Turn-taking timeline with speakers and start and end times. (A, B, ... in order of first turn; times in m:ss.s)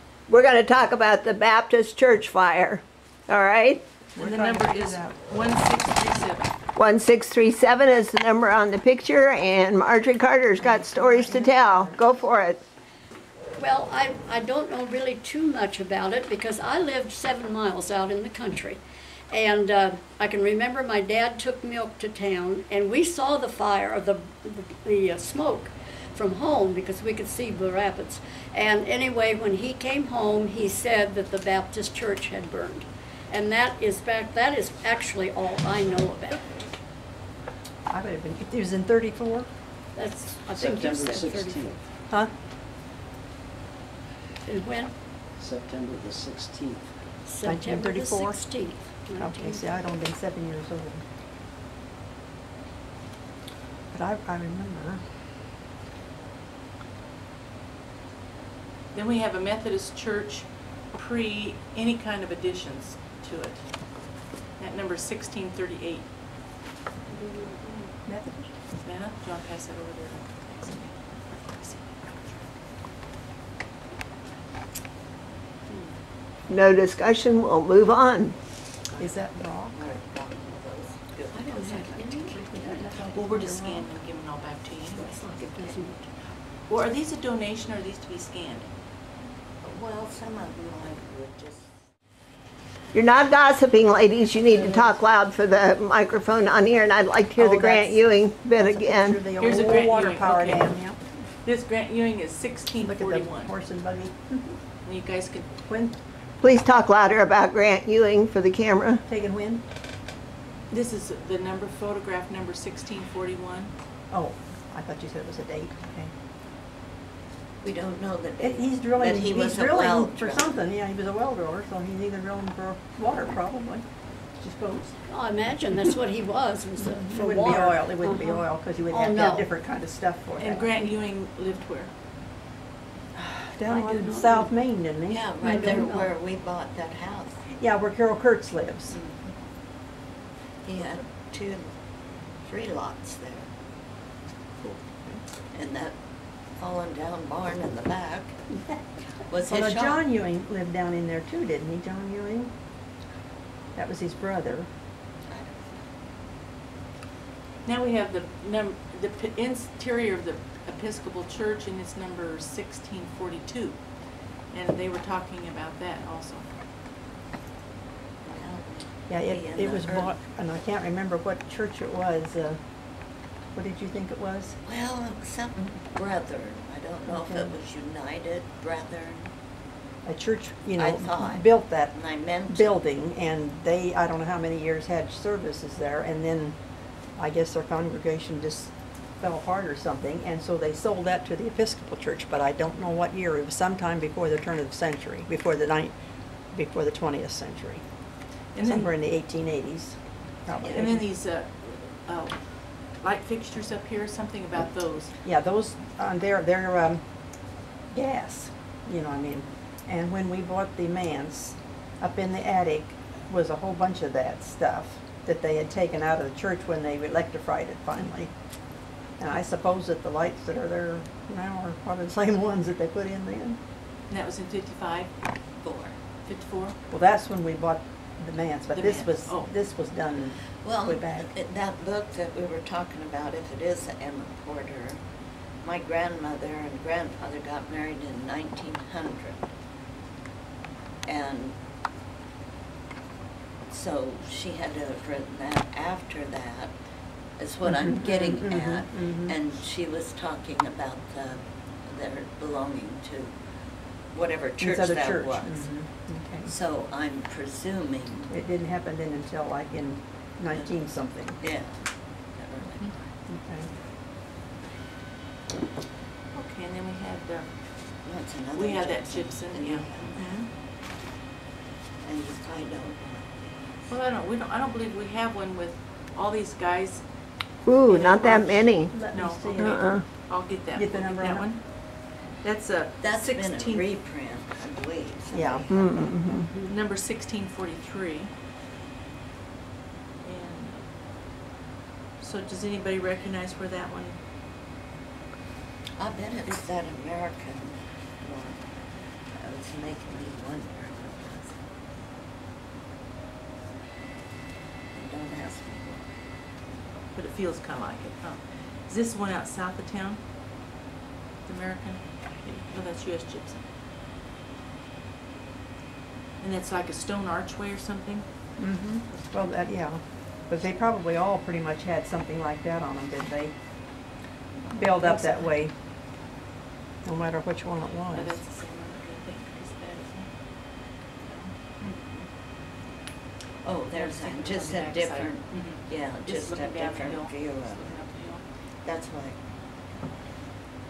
0:00.3-0:03.8 A
0:04.2-0:05.2 B
0:04.2-0:06.5 C
0:06.8-0:12.6 A
0:10.6-0:12.0 B
0:13.6-0:36.6 D
0:37.9-0:39.5 B
0:39.9-0:41.8 D
0:40.5-0:41.8 E
0:44.4-0:44.9 D
0:45.4-0:46.9 E
0:47.2-0:49.7 D
0:47.4-0:48.4 B
0:49.2-0:51.0 B
0:53.9-0:55.1 B
0:58.9-1:03.8 C
1:04.6-1:06.1 C
1:07.1-1:07.9 D
1:08.0-1:08.5 B
1:08.8-1:12.5 C
1:15.7-1:16.0 D
1:16.5-1:18.4 A
1:19.0-1:20.0 B
1:19.7-1:22.6 F
1:21.3-1:23.0 D
1:22.2-1:23.9 B
1:23.1-1:25.7 C
1:24.9-1:26.1 D
1:26.7-1:28.7 C
1:29.6-1:31.7 F
1:32.9-1:39.2 A
1:34.6-1:34.9 B
1:37.4-1:41.0 B
1:39.4-1:40.7 C
1:41.4-1:43.5 C
1:42.8-1:44.4 B
1:44.8-1:45.5 C
1:45.7-1:46.0 B
1:46.4-1:49.0 A
1:49.1-1:49.6 B
1:50.7-1:53.7 C
1:54.1-1:56.1 B
1:57.6-2:00.6 F
1:58.4-2:03.8 B
2:04.4-2:04.9 B
2:05.0-2:09.5 D
2:06.8-2:10.7 B
2:10.4-2:11.9 C
2:13.1-2:15.9 B
2:13.7-2:14.5 D
2:15.1-2:17.5 F
2:15.4-2:16.2 D
2:17.6-2:19.0 B
2:18.9-2:19.3 F
2:20.6-2:21.7 F
2:22.4-2:23.5 F
2:24.6-2:25.2 B
2:25.5-2:25.9 F
2:26.5-2:28.4 F
2:29.3-2:30.0 F
2:29.5-2:32.5 B
2:33.7-2:34.7 B
2:35.3-2:35.9 F
2:37.6-2:43.8 C
2:44.5-2:46.5 C
2:48.2-2:50.2 F
2:49.1-2:52.6 B
2:53.5-2:54.6 B
2:54.6-2:59.3 F
2:57.1-2:57.5 B
3:00.0-3:01.9 B
3:00.8-3:02.8 F
3:02.5-3:06.6 B
3:07.2-3:15.9 B
3:16.5-3:17.8 B
3:18.5-3:18.9 C
3:18.6-3:21.0 B
3:20.6-3:25.1 C
3:25.2-3:27.0 B
3:27.9-3:38.3 B
3:39.2-3:43.6 B
3:44.1-3:45.1 C
3:45.6-3:46.0 F
3:46.2-3:46.8 C
3:46.9-3:51.3 B
3:48.7-3:49.5 C
3:50.6-3:55.0 F
3:55.6-3:59.5 F
4:01.0-4:01.6 F
4:03.7-4:06.7 F
4:07.4-4:13.4 F
4:07.6-4:09.4 B
4:14.1-4:15.7 F
4:14.6-4:16.5 B
4:16.4-4:18.3 F
4:18.3-4:21.4 B
4:21.4-4:22.9 F
4:23.3-4:23.7 B
4:26.3-4:27.5 C
4:28.0-4:30.2 F
4:28.5-4:30.5 C
4:32.0-4:33.9 F
4:33.9-4:37.0 C
4:37.6-4:38.9 A
4:37.8-4:41.9 C
4:38.9-4:39.9 B
4:39.6-4:40.0 A
4:40.7-4:41.5 B
4:42.4-4:43.9 C
4:43.0-4:46.2 F
4:45.3-4:45.7 B
4:45.7-4:46.5 A
4:46.2-4:46.7 D
4:46.7-4:48.3 C
4:50.2-4:50.8 C
4:52.2-4:54.2 C
4:56.0-5:01.6 F
5:04.9-5:06.1 F
5:07.1-5:10.2 C
5:11.4-5:13.6 C
5:16.4-5:18.2 C
5:18.6-5:23.5 B
5:24.7-5:25.7 B
5:25.0-5:25.4 C
5:27.0-5:28.4 B
5:28.1-5:32.3 C
5:33.6-5:38.0 F
5:33.9-5:38.4 C
5:38.8-5:39.4 F